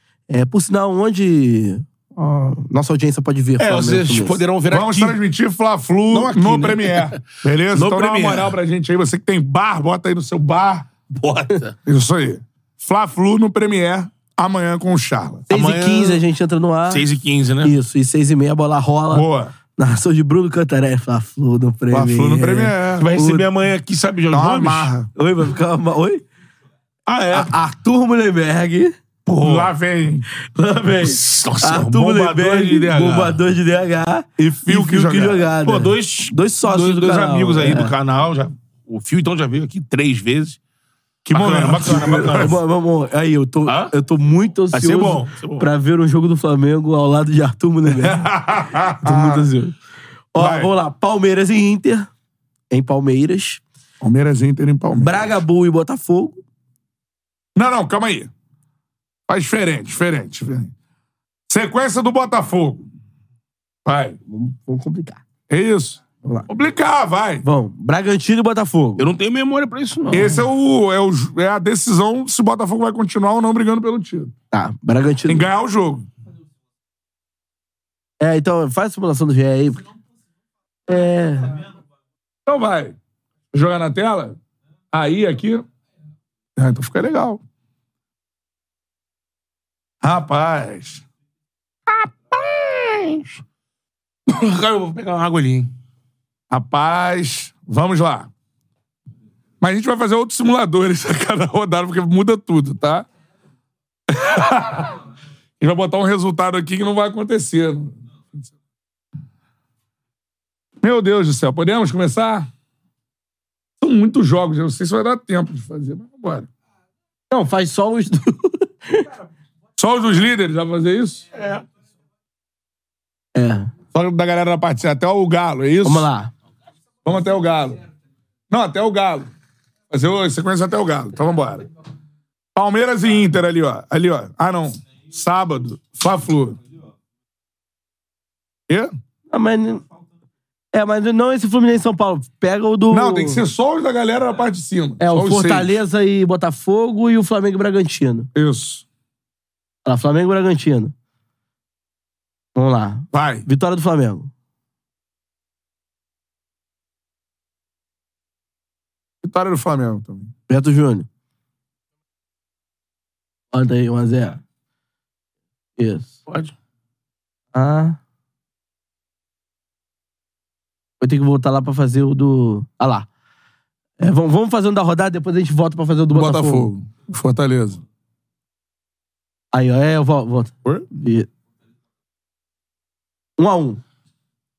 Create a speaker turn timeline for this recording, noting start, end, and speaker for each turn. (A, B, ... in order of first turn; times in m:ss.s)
0:00.3-0:04.4 A
0:03.6-0:05.2 B
0:04.7-0:10.9 C
0:06.1-0:08.6 B
0:11.1-0:11.8 B
0:11.8-0:15.5 C
0:15.5-0:17.1 A
0:15.5-0:16.2 B
0:16.9-0:17.7 B
0:17.6-0:23.5 A
0:19.1-0:19.5 C
0:21.9-0:23.1 C
0:23.0-0:24.9 B
0:24.3-0:25.1 C
0:25.2-0:26.2 A
0:27.1-0:27.6 B
0:27.3-0:29.0 A
0:29.3-0:29.7 B
0:29.4-0:30.3 C
0:30.4-0:37.9 A
0:31.0-0:33.4 B
0:34.6-0:35.5 C
0:35.6-0:40.6 B
0:41.3-0:42.6 C
0:41.3-0:42.6 B
0:42.2-0:48.2 A
0:43.7-0:43.9 B
0:44.7-0:45.7 B
0:47.9-0:49.5 C
0:49.0-0:49.8 A
0:50.3-0:52.1 A
0:50.4-0:50.7 C
0:52.7-0:53.6 A
0:54.0-0:55.4 C
0:54.9-0:56.4 A
0:57.6-0:58.3 C
0:59.3-1:00.7 C
1:01.5-1:02.9 C
1:03.9-1:04.2 C
1:04.3-1:05.2 A
1:05.5-1:07.4 C
1:07.4-1:09.1 A
1:09.0-1:10.4 B
1:10.1-1:14.3 C
1:14.5-1:15.5 A
1:15.3-1:16.1 C
1:18.2-1:19.8 A
1:20.9-1:21.6 A
1:22.5-1:23.0 C
1:23.5-1:24.4 C
1:24.9-1:25.6 C
1:26.6-1:27.4 C
1:30.0-1:31.0 C
1:31.9-1:33.4 B
1:34.3-1:35.7 B
1:36.5-1:38.3 C
1:39.6-1:43.1 C
1:44.1-1:45.0 C
1:45.6-1:48.0 C
1:50.8-1:52.5 C
1:53.8-1:56.5 C
1:57.3-1:59.1 A
1:59.8-2:01.2 C
2:01.3-2:01.6 B
2:03.4-2:03.7 A
2:03.9-2:06.1 C
2:05.8-2:06.3 A
2:07.0-2:07.8 C
2:08.5-2:09.3 C
2:09.9-2:11.6 C
2:12.6-2:16.6 C
2:19.3-2:19.8 A
2:20.7-2:23.4 A
2:22.9-2:25.8 C
2:25.0-2:28.3 A
2:28.4-2:28.8 C
2:29.8-2:30.9 A
2:32.6-2:34.3 A
2:33.1-2:33.5 C
2:39.2-2:40.3 C
2:40.5-2:41.1 A
2:43.5-2:44.4 A
2:45.8-2:46.1 A
2:46.3-2:46.5 B
2:47.5-2:48.0 A
2:51.0-2:53.1 A
2:54.0-2:56.7 A
2:56.1-2:57.8 C
2:59.5-3:01.3 A
3:03.4-3:03.8 A